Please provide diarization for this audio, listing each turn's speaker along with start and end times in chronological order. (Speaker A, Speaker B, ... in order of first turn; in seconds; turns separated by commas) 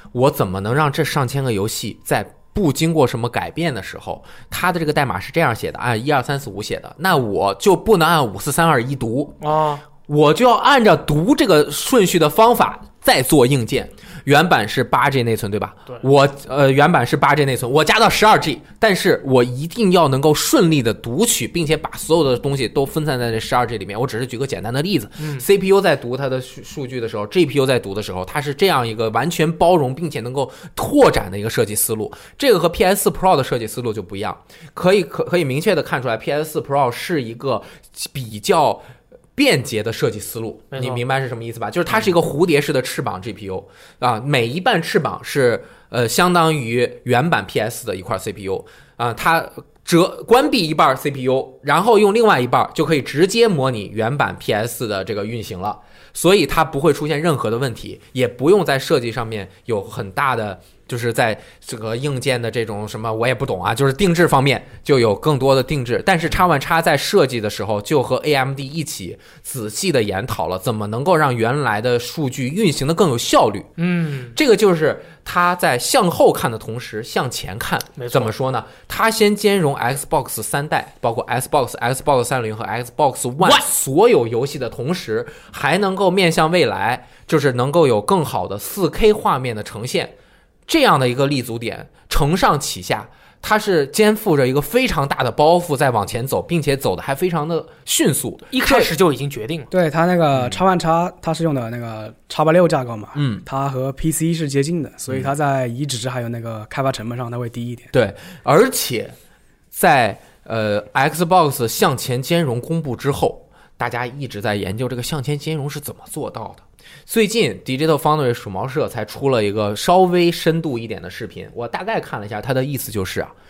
Speaker A: 0.1-9.4, Speaker B: 9.4-9.8, Speaker A: 10.1-73.7, Speaker B: 25.2-25.4, Speaker B: 40.7-41.0, Speaker B: 73.8-74.3, Speaker A: 74.3-90.1, Speaker B: 78.0-78.3, Speaker B: 83.4-83.7, Speaker A: 90.7-98.9, Speaker B: 98.5-99.7, Speaker C: 99.7-107.9, Speaker A: 103.1-103.5, Speaker A: 107.9-109.2, Speaker A: 109.7-123.3